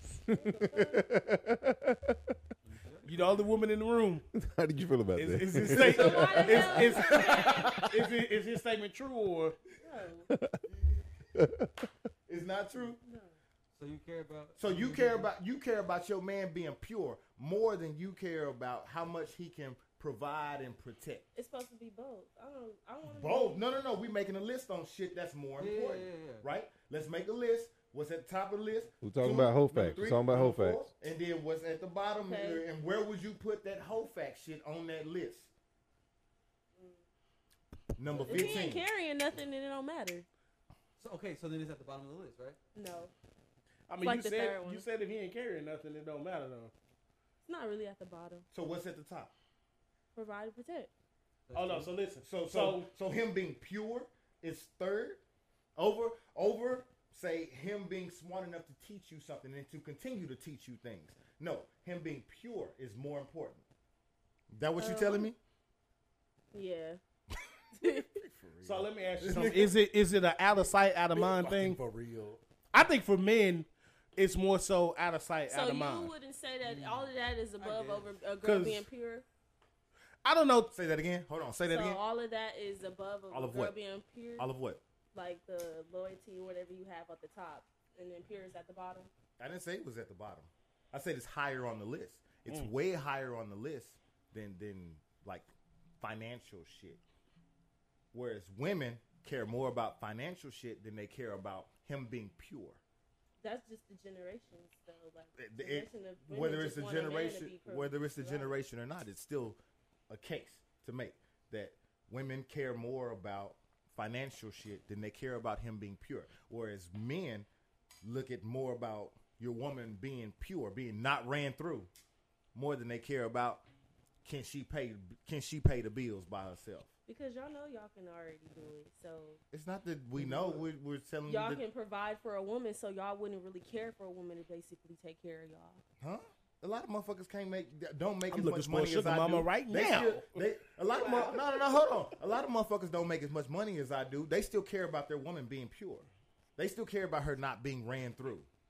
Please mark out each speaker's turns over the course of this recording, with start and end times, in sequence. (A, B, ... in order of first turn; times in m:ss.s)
0:00.3-0:02.3 A
0:00.3-0:01.1 B
0:02.6-0:03.4 C
0:03.0-0:04.2 D
0:04.3-0:07.9 A
0:05.1-0:09.6 D
0:05.8-0:07.8 B
0:06.3-0:07.8 E
0:09.8-0:10.3 B
0:10.3-0:10.6 A
0:10.7-0:11.0 E
0:11.3-0:11.8 A
0:12.3-0:13.0 E
0:13.0-0:13.3 B
0:13.7-0:15.3 C
0:14.6-0:21.3 E
0:21.3-0:23.6 B
0:23.1-0:35.5 E
0:25.6-0:26.4 C
0:29.0-0:30.8 A
0:32.2-0:32.6 B
0:38.0-0:38.9 E
0:38.2-0:40.2 B
0:38.3-0:38.6 C
0:41.0-0:42.6 C
0:42.7-0:43.1 B
0:43.9-0:46.7 D
0:44.0-0:44.8 B
0:47.4-0:48.4 B
0:48.5-0:49.3 E
0:50.1-0:50.9 B
0:51.5-0:51.9 C
0:51.5-0:52.9 D
0:52.2-0:55.2 E
0:55.8-1:03.6 E
1:04.5-1:05.4 E
1:04.8-1:05.3 B
1:06.5-1:07.0 B
1:07.8-1:08.2 B
1:07.8-1:09.7 E
1:08.6-1:11.8 D
1:11.1-1:12.4 E
1:12.7-1:16.1 D
1:15.5-1:19.2 B
1:16.6-1:18.1 C
1:18.4-1:18.9 D
1:20.2-1:20.7 D
1:20.7-1:22.0 E
1:21.7-1:24.5 B
1:23.3-1:23.8 E
1:24.4-1:24.8 E
1:25.1-1:29.1 B
1:29.4-1:35.5 E
1:36.0-1:37.0 E
1:38.1-1:42.8 E
1:43.4-1:48.6 B
1:45.4-1:57.5 E
1:58.0-2:01.9 E
2:02.5-2:03.6 E
2:04.2-2:06.9 E
2:07.1-2:09.4 B
2:09.5-2:11.6 E
2:10.2-2:10.6 D
2:11.2-2:15.8 B
2:16.0-2:28.5 E
2:18.3-2:20.4 D
2:21.0-2:21.3 B
2:21.0-2:21.4 D